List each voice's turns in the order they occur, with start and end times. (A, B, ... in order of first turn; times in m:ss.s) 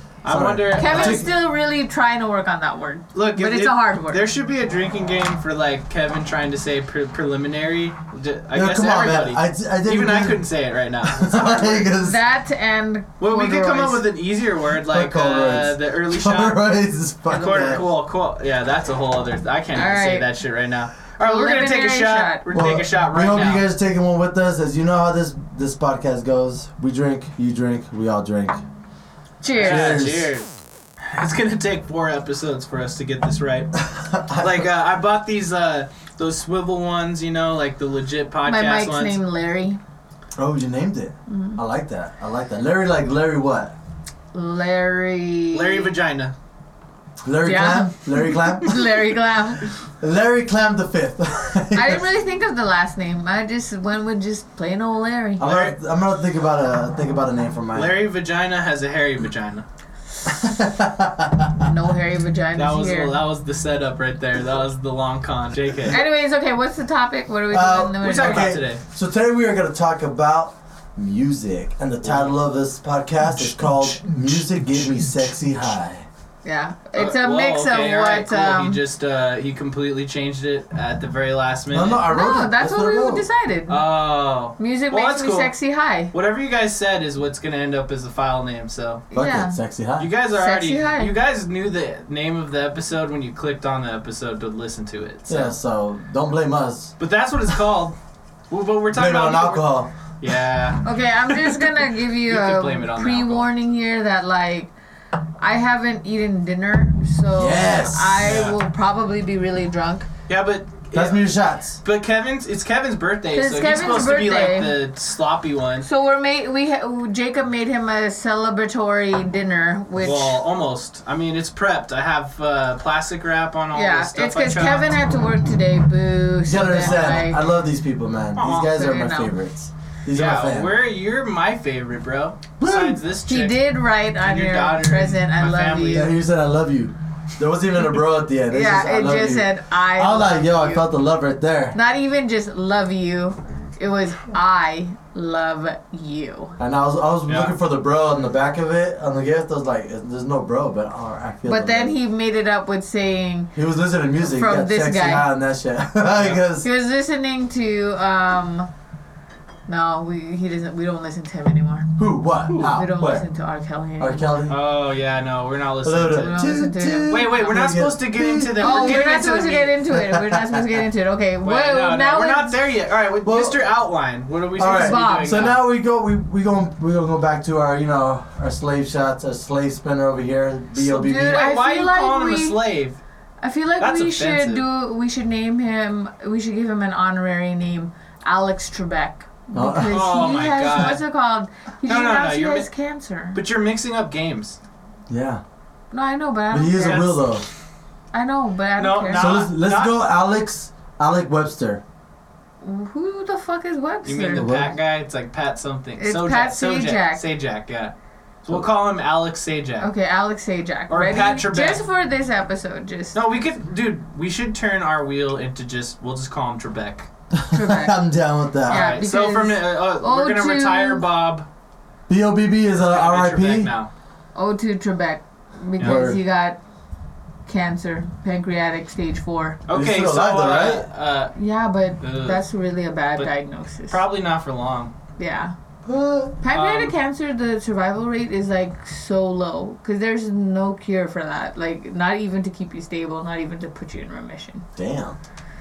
0:00.2-0:01.3 A
0:00.3-0:01.3 B
0:00.7-0:04.2 C
0:03.1-0:11.9 A
0:08.5-0:10.4 B
0:11.0-0:12.2 B
0:12.0-0:14.1 C
0:13.2-0:16.6 A
0:14.9-0:17.8 B
0:17.3-0:23.7 A
0:19.7-0:20.3 C
0:21.2-0:22.4 C
0:22.5-0:28.6 B
0:29.4-0:30.0 C
0:29.6-0:33.8 A
0:29.6-0:30.3 B
0:33.8-0:34.7 B
0:34.4-0:39.2 A
0:38.5-0:39.8 C
0:40.4-0:43.8 B
0:41.3-0:41.6 C
0:44.3-0:45.9 C
0:45.5-0:46.4 A
0:47.2-0:48.8 B
0:47.4-0:49.7 C
0:50.0-0:52.1 B
0:51.7-0:55.5 C
0:55.4-0:55.8 A
0:55.4-0:58.0 B
0:57.7-0:59.7 A
1:00.2-1:01.7 B
1:01.7-1:03.2 C
1:02.6-1:06.0 A
1:05.9-1:08.6 C
1:07.5-1:16.1 B
1:08.0-1:08.8 A
1:12.0-1:12.4 A
1:13.4-1:14.0 A
1:16.4-1:18.8 C
1:17.0-1:22.0 A
1:21.7-1:23.3 B
1:22.1-1:23.8 C
1:23.7-1:25.5 A
1:24.6-1:26.1 C
1:26.1-1:29.0 A
1:29.1-1:29.6 C
1:29.1-1:30.1 B
1:30.0-1:35.5 A
1:30.3-1:31.1 C
1:35.3-1:36.9 B
1:37.0-1:38.0 A
1:38.5-1:40.8 A
1:38.9-1:39.9 B
1:40.8-1:44.7 C
1:41.3-1:41.7 A
1:42.3-1:43.5 A
1:45.4-1:50.1 C
1:47.4-1:48.5 B
1:48.2-1:48.6 A
1:50.3-1:51.3 A
1:50.9-1:51.8 B
1:51.8-1:55.9 A
1:53.3-1:54.8 C
1:55.8-2:00.4 C
2:00.0-2:04.9 A
2:03.7-2:07.4 C
2:06.5-2:10.8 B
2:06.8-2:07.2 A
2:08.4-2:08.7 A
2:08.5-2:09.3 C
2:10.1-2:16.1 A
2:12.6-2:13.0 B
2:13.3-2:16.1 C
2:15.9-2:21.8 B
2:18.5-2:20.9 C
2:21.7-2:26.6 C
2:26.6-2:32.0 B
2:27.3-2:27.6 A
2:31.5-2:33.5 C
2:33.6-2:36.7 B
2:34.2-2:35.3 C
2:36.6-2:38.7 C
2:39.7-2:41.9 C
2:42.0-2:43.3 B
2:42.6-2:44.3 C
2:44.0-2:44.6 B
2:44.5-2:46.3 A
2:45.8-2:49.1 B
2:46.1-2:47.2 C
2:47.1-2:49.8 A
2:48.6-2:52.6 C
2:49.9-2:50.8 B
2:51.4-2:55.6 A
2:53.2-2:53.6 B
2:54.6-3:01.5 B
2:54.6-2:55.6 C
3:00.8-3:03.0 A
3:00.9-3:02.6 C
3:03.4-3:13.4 C
3:03.8-3:04.6 A
3:09.5-3:10.0 B
3:09.9-3:11.0 A
3:11.9-3:12.7 A
3:13.3-3:14.6 A
3:15.1-3:15.4 B
3:15.9-3:17.2 C
3:16.5-3:17.4 B
3:16.8-3:17.3 A
3:18.1-3:19.3 C
3:18.8-3:20.0 A
3:19.1-3:21.8 B
3:22.6-3:24.5 C
3:24.1-3:29.9 A
3:24.3-3:24.7 B
3:26.0-3:27.2 C
3:29.8-3:33.3 C
3:30.9-3:31.8 A
3:33.1-3:37.1 A
3:37.3-3:39.0 B
3:37.5-3:38.0 C
3:38.7-3:41.1 C
3:38.7-3:41.5 A
3:42.1-3:43.7 B
3:42.8-3:43.9 A
3:44.4-3:46.6 C
3:45.8-3:46.0 A
3:45.8-3:46.2 B
3:47.5-3:49.6 C
3:49.7-3:51.4 A
3:49.7-3:50.9 B
3:51.4-3:54.0 C
3:52.0-3:52.4 A
3:53.9-3:54.9 A
3:55.2-3:55.5 C
3:55.8-3:56.4 B
3:56.4-4:04.6 C
3:56.5-3:57.0 A
4:04.8-4:05.2 B